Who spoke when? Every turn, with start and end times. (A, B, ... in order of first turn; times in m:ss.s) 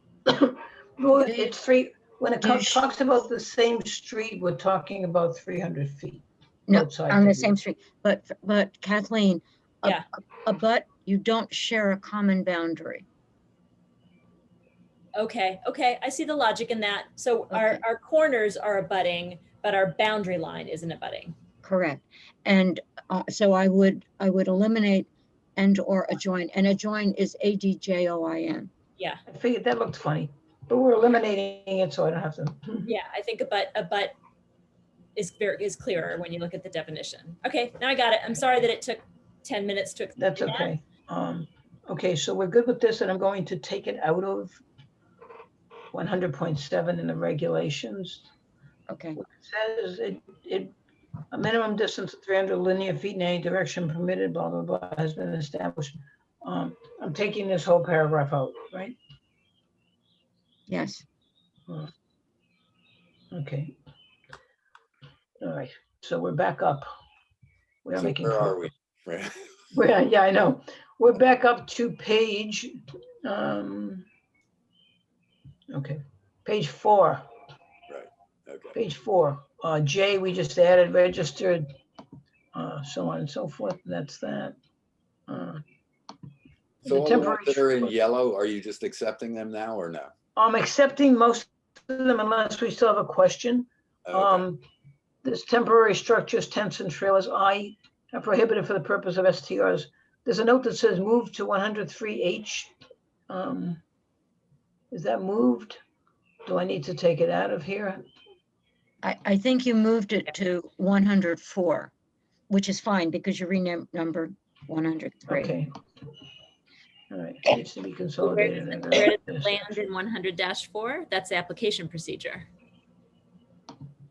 0:00.3-0:07.5 A
0:01.2-0:01.5 B
0:02.4-0:02.9 B
0:06.7-0:13.0 B
0:15.2-0:21.3 C
0:17.5-0:17.8 B
0:21.6-0:28.7 B
0:29.3-0:32.9 A
0:32.8-0:34.2 C
0:35.2-0:40.7 C
0:40.2-0:44.6 A
0:45.9-0:48.2 A
0:48.9-0:49.2 B
0:49.2-0:50.7 A
0:51.3-0:59.0 A
1:00.7-1:01.0 B
1:03.3-1:03.7 A
1:05.4-1:06.9 A
1:07.8-1:08.7 A
1:08.0-1:09.4 D
1:09.7-1:12.7 A
1:13.2-1:14.0 A
1:15.7-1:17.2 A
1:17.9-1:18.7 D
1:18.7-1:21.6 A
1:22.5-1:24.6 A
1:25.3-1:25.6 A
1:26.8-1:27.9 A
1:26.8-1:30.1 D
1:30.4-1:34.6 A
1:34.0-1:34.5 D
1:35.2-1:42.7 A
1:43.3-1:43.8 A
1:44.9-1:45.8 A
1:46.4-1:48.0 A
1:49.0-1:51.9 B
1:52.5-1:55.6 B
1:55.3-1:55.7 A
1:57.1-1:59.8 A
1:58.2-2:02.5 C